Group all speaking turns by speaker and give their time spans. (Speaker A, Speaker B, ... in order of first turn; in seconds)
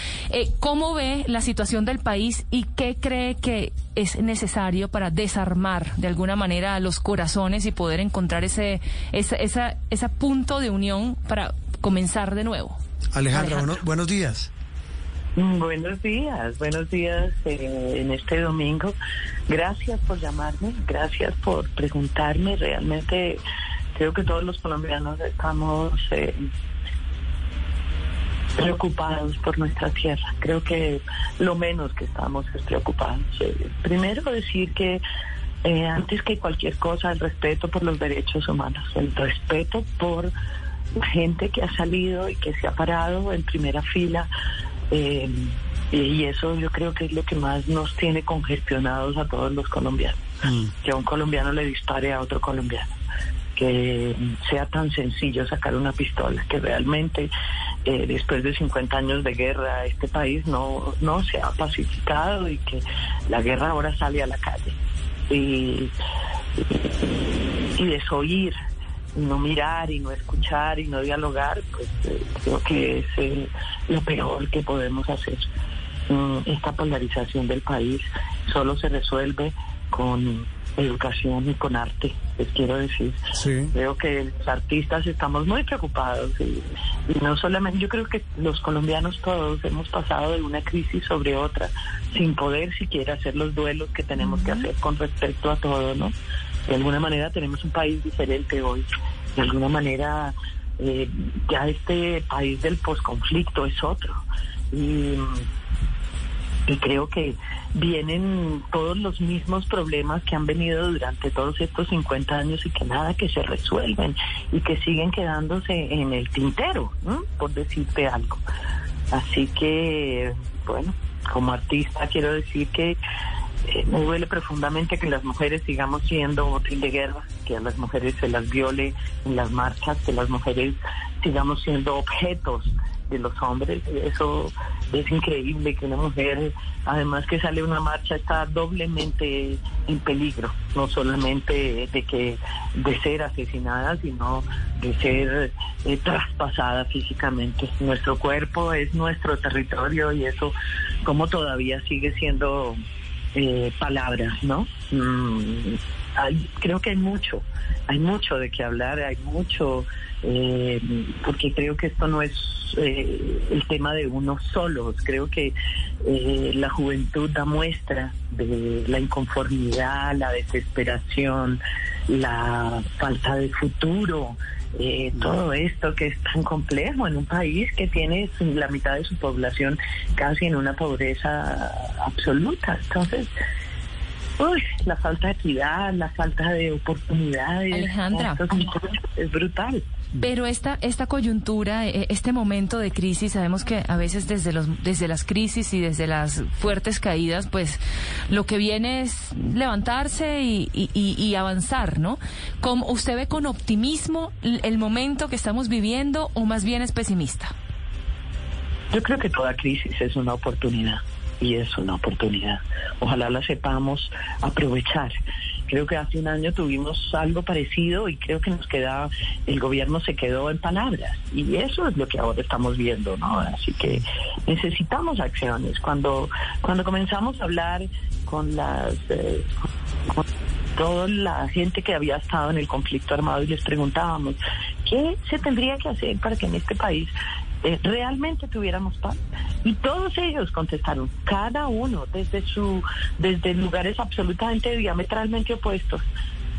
Speaker A: 0.3-12.8, 13.3-13.7, 94.2-94.7, 187.7-188.4, 190.2-207.5
Speaker B: 13.1-14.5, 50.4-50.7, 83.3-83.7
Speaker C: 15.4-18.9, 19.5-23.4, 23.9-26.5, 28.6-35.0, 35.6-40.3, 41.0-44.3, 44.9-50.2, 50.8-52.9, 53.6-57.3, 57.9-64.8, 65.3-65.9, 66.6-66.9, 67.8-68.5, 69.2-75.5, 76.1-83.2, 83.7-96.1, 96.7-105.5, 106.7-118.4, 119.1-123.0, 123.7-152.8, 153.3-183.3, 184.4-189.8, 208.9-215.1, 215.7-229.6, 230.8-246.1